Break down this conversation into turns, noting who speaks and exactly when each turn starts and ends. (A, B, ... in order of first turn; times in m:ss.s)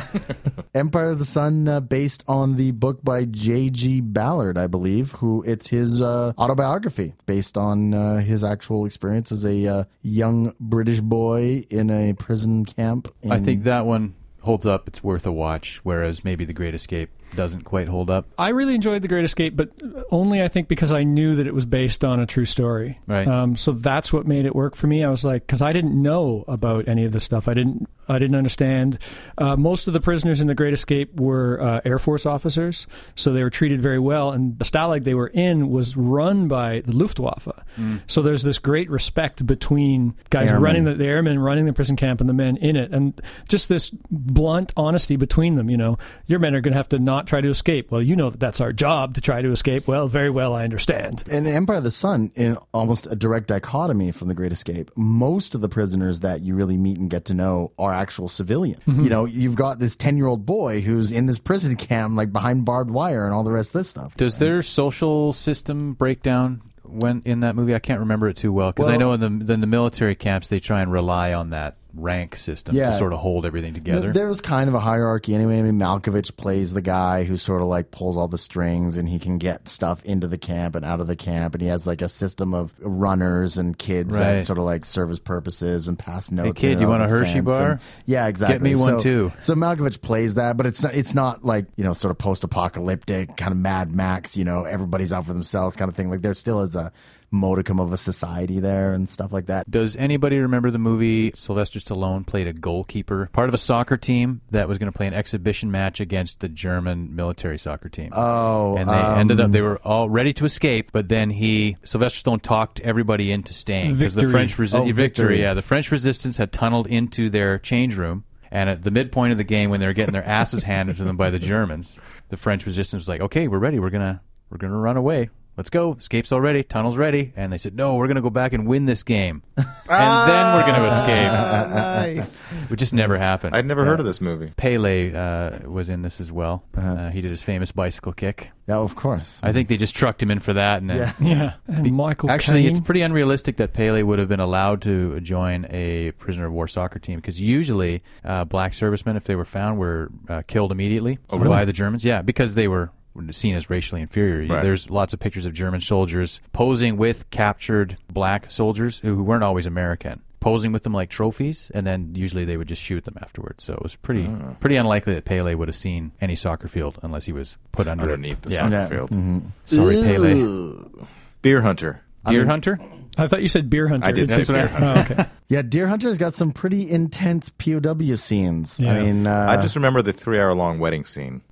0:00.7-0:13.6 A
0:13.3-0:18.3 B
0:18.4-0:51.2 C
0:23.1-0:23.3 B
0:40.4-0:40.9 A
0:51.3-1:04.5 A
0:58.9-0:59.1 C
1:04.2-1:14.2 B
1:08.8-1:09.1 A
1:12.7-1:13.1 A
1:13.9-1:39.7 A
1:24.0-1:24.5 B
1:26.4-1:27.8 B
1:28.4-1:29.4 B
1:39.7-1:48.2 B
1:48.1-1:49.6 A
1:48.7-2:11.5 B
1:53.8-1:54.6 C
1:54.7-1:55.5 A
2:09.9-2:12.7 D
2:11.3-2:12.3 A
2:12.6-2:13.6 B
2:12.9-2:13.2 A
2:13.5-2:14.5 D
2:14.6-2:18.5 B
2:18.7-2:19.6 A
2:19.4-2:48.7 B
2:20.9-2:21.4 A
2:21.2-2:22.8 C
2:31.3-2:31.6 D
2:44.1-2:44.6 D
2:48.0-2:49.2 D
2:48.6-2:49.7 A
2:49.7-2:50.5 B
2:49.7-2:50.8 D
2:51.4-2:52.2 D
2:52.2-2:52.5 A
2:52.2-2:52.8 B
2:53.2-2:55.3 C
2:54.0-2:55.2 D
2:54.2-2:55.2 B
2:55.5-2:59.7 A
2:58.8-2:59.1 C
2:59.4-3:01.4 D